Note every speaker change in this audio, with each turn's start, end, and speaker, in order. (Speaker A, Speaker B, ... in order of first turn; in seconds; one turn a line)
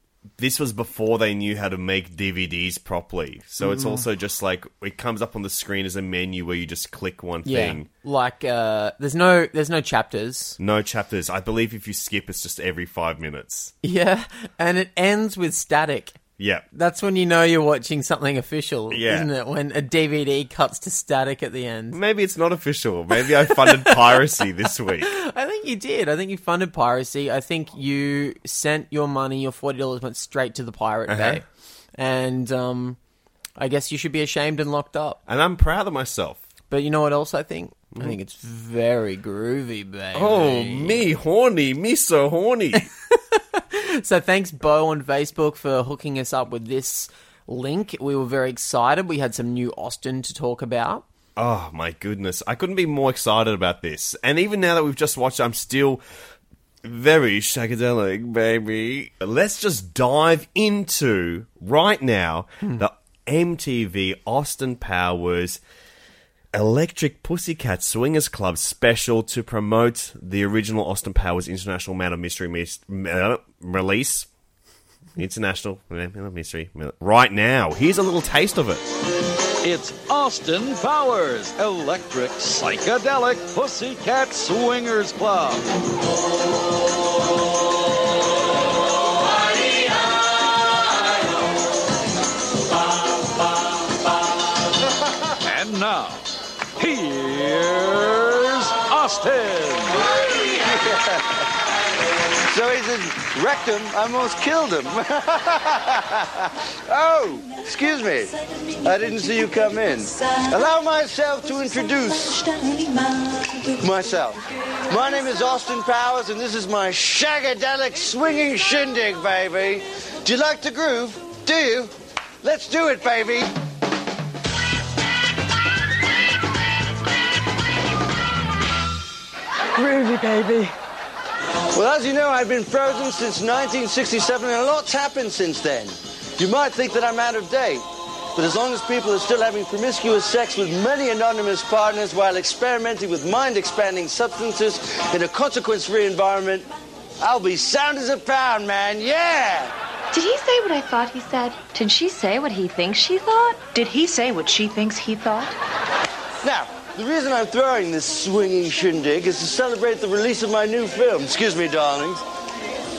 Speaker A: 0.4-7.9
Speaker B: 3.6-4.0
Speaker B: 7.4-10.6
Speaker A: 10.6-13.7
Speaker B: 13.8-16.2
Speaker A: 16.4-16.6
Speaker B: 16.7-22.0
Speaker A: 18.9-19.3
Speaker A: 21.9-25.1
Speaker B: 23.5-24.0
Speaker B: 25.1-31.4
Speaker A: 31.1-31.4
Speaker B: 31.9-33.0
Speaker B: 33.6-35.2
Speaker A: 35.3-36.4
Speaker B: 36.7-41.0
Speaker A: 40.1-42.9
Speaker B: 43.1-51.0
Speaker A: 51.4-56.0
Speaker A: 56.8-65.6
Speaker A: 66.5-74.3
Speaker A: 75.2-78.9
Speaker C: 79.6-85.7
Speaker C: 95.5-96.2
Speaker C: 96.8-100.0
Speaker D: 100.5-101.3
Speaker D: 102.5-112.5
Speaker D: 113.7-123.5
Speaker E: 129.8-130.7
Speaker D: 131.7-137.8
Speaker D: 138.3-146.7
Speaker D: 147.2-149.7
Speaker E: 150.1-155.6
Speaker D: 156.4-162.2